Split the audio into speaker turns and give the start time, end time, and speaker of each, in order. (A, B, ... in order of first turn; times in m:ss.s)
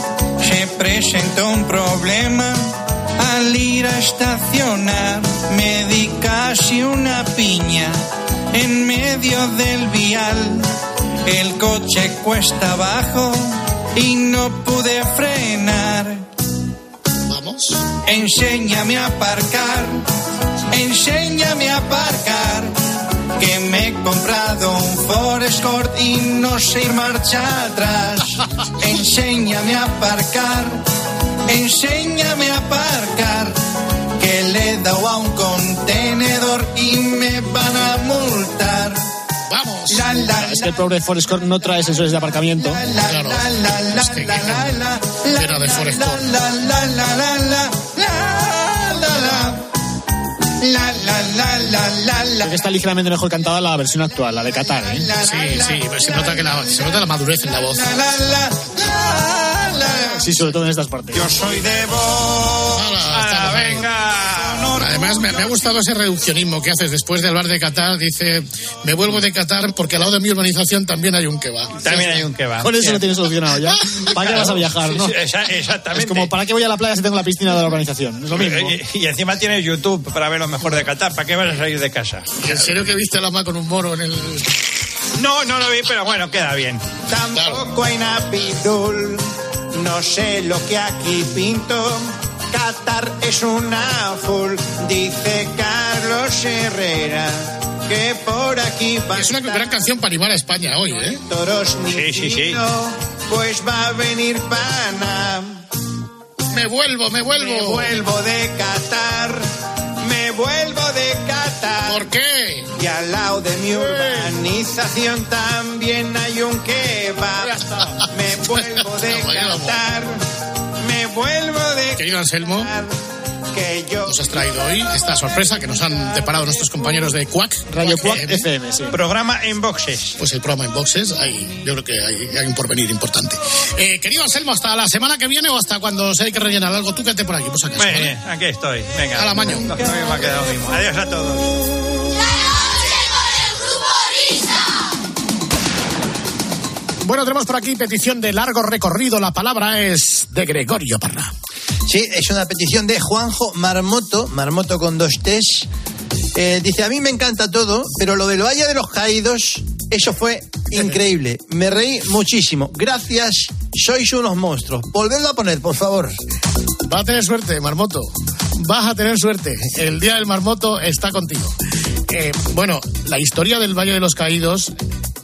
0:00.4-0:08.0 A
0:08.5-0:10.7 A
0:11.2-0:16.2 A
0:17.3-0:17.8 B
0:18.0-0:20.0 A
0:20.7-0:22.7 A
0:23.4-0:30.8 A
0:31.5-0:33.6 A
0:34.2-0:39.0 A
0:39.5-0:40.2 B
0:39.9-0:40.8 A
0:40.3-0:42.8 C
0:42.6-0:49.6 A
0:43.0-0:44.8 B
0:45.3-0:46.3 B
0:50.6-0:52.5 A
0:52.4-0:55.1 C
0:54.8-1:00.4 A
0:55.2-0:57.9 B
1:00.2-1:01.3 C
1:01.1-1:05.6 A
1:02.7-1:03.9 B
1:03.1-1:03.9 D
1:04.8-1:11.9 B
1:11.8-1:13.1 D
1:11.9-1:15.2 C
1:14.2-1:16.3 D
1:15.9-1:18.8 C
1:18.3-1:22.6 D
1:22.4-1:24.6 B
1:25.2-1:26.8 D
1:27.1-1:39.7 A
1:27.3-1:27.6 B
1:39.1-1:41.2 B
1:41.1-1:45.6 A
1:41.9-1:42.6 D
1:46.5-1:48.0 B
1:47.4-1:49.5 A
1:50.0-1:52.1 A
1:51.8-1:52.7 B
1:52.8-2:00.2 A
1:53.7-1:54.3 B
1:57.5-1:57.9 B
1:58.5-1:59.8 B
2:00.8-2:02.9 A
2:02.0-2:02.7 B
2:03.5-2:07.1 A
2:04.0-2:08.4 B
2:07.7-2:09.0 C
2:08.9-2:10.1 D
2:10.2-2:18.2 B
2:17.8-2:21.5 D
2:19.1-2:19.9 B
2:27.0-2:31.3 B
2:31.9-2:35.7 E
2:36.3-2:46.2 E
2:46.8-2:51.5 B
2:52.1-2:54.7 B